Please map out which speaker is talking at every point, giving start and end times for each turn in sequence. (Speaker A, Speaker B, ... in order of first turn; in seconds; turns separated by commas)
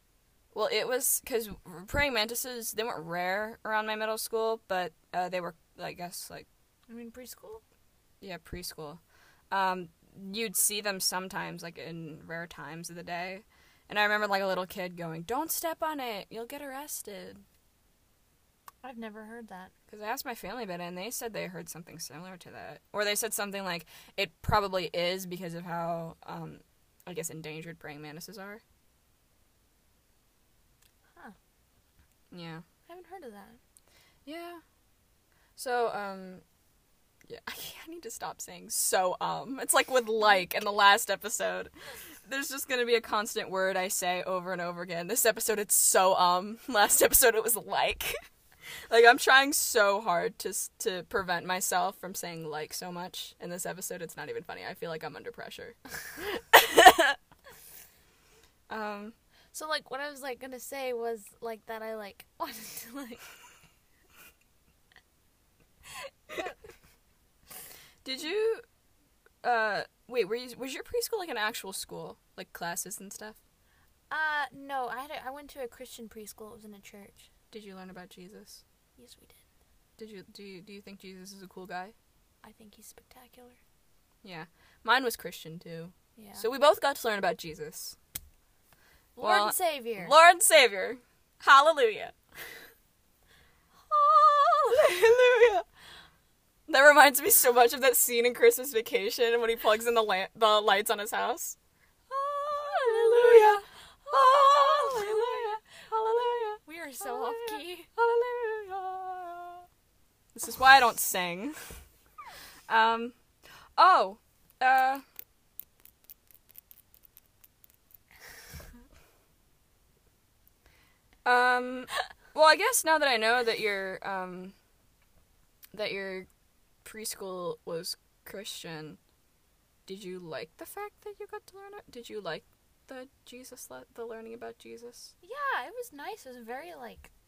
Speaker A: 0.5-6.5, Speaker B: 6.9-7.6, Speaker A: 8.2-17.4, Speaker B: 18.8-19.7, Speaker A: 19.9-28.6, Speaker A: 32.3-32.6, Speaker B: 32.9-33.6, Speaker A: 34.2-34.6, Speaker A: 35.5-36.4, Speaker A: 37.3-41.7, Speaker A: 42.2-48.1, Speaker A: 48.9-57.2, Speaker A: 58.7-59.1, Speaker B: 59.5-63.2, Speaker B: 66.0-66.5, Speaker A: 68.0-68.6, Speaker A: 69.4-73.4, Speaker B: 74.1-77.3, Speaker A: 77.5-78.6, Speaker B: 79.0-79.4, Speaker A: 80.0-81.9, Speaker B: 82.4-83.6, Speaker A: 84.2-88.0, Speaker B: 86.2-86.4, Speaker B: 89.2-90.1, Speaker A: 89.2-92.2, Speaker A: 93.9-95.7, Speaker A: 96.7-101.6, Speaker A: 102.1-109.7, Speaker B: 102.6-105.6, Speaker B: 106.2-107.9, Speaker A: 110.3-111.7, Speaker A: 112.7-113.2, Speaker A: 113.8-115.0, Speaker A: 121.2-124.5, Speaker A: 125.7-126.3, Speaker A: 126.8-129.0, Speaker A: 129.9-135.1, Speaker B: 135.2-137.1